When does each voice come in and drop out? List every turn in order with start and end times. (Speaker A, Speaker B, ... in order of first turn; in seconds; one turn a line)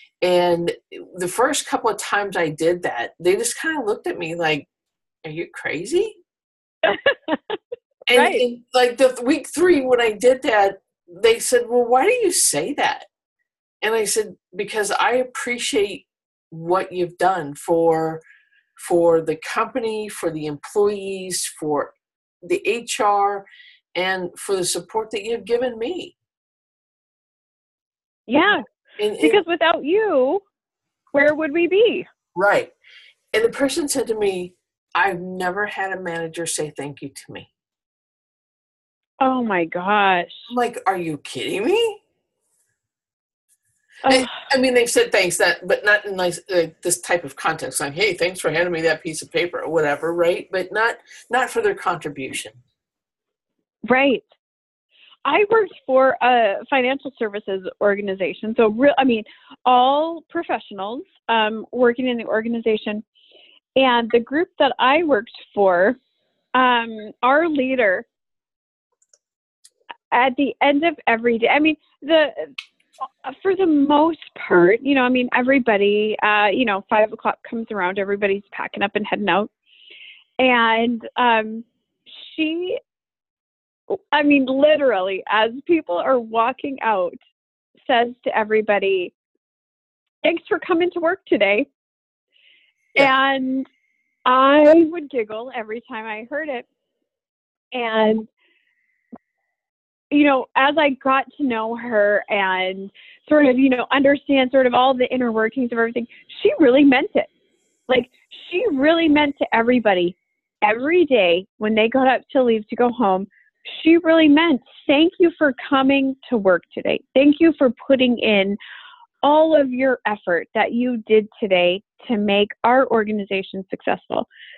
Speaker A: 0.2-4.7
Speaker A: 5.2-6.2
Speaker B: 6.8-7.6
Speaker A: 8.1-13.1
Speaker B: 8.2-8.4
Speaker A: 13.8-18.2
Speaker A: 18.8-26.1
Speaker B: 28.3-28.6
Speaker A: 29.0-29.4
Speaker B: 29.2-30.4
Speaker B: 31.1-32.1
Speaker A: 32.4-32.7
Speaker A: 33.3-37.5
Speaker B: 39.2-40.5
Speaker A: 40.5-42.0
Speaker B: 44.1-44.4
Speaker A: 44.1-52.6
Speaker B: 53.9-54.2
Speaker B: 55.2-63.0
Speaker B: 63.8-66.0
Speaker B: 66.6-68.1
Speaker B: 70.1-79.5
Speaker B: 80.4-82.8
Speaker B: 83.9-87.2
Speaker B: 87.8-89.1
Speaker B: 90.2-91.7
Speaker B: 93.0-93.7
Speaker B: 94.3-96.7
Speaker B: 97.7-98.3
Speaker B: 100.1-107.3
Speaker B: 107.9-118.6
Speaker B: 119.2-124.3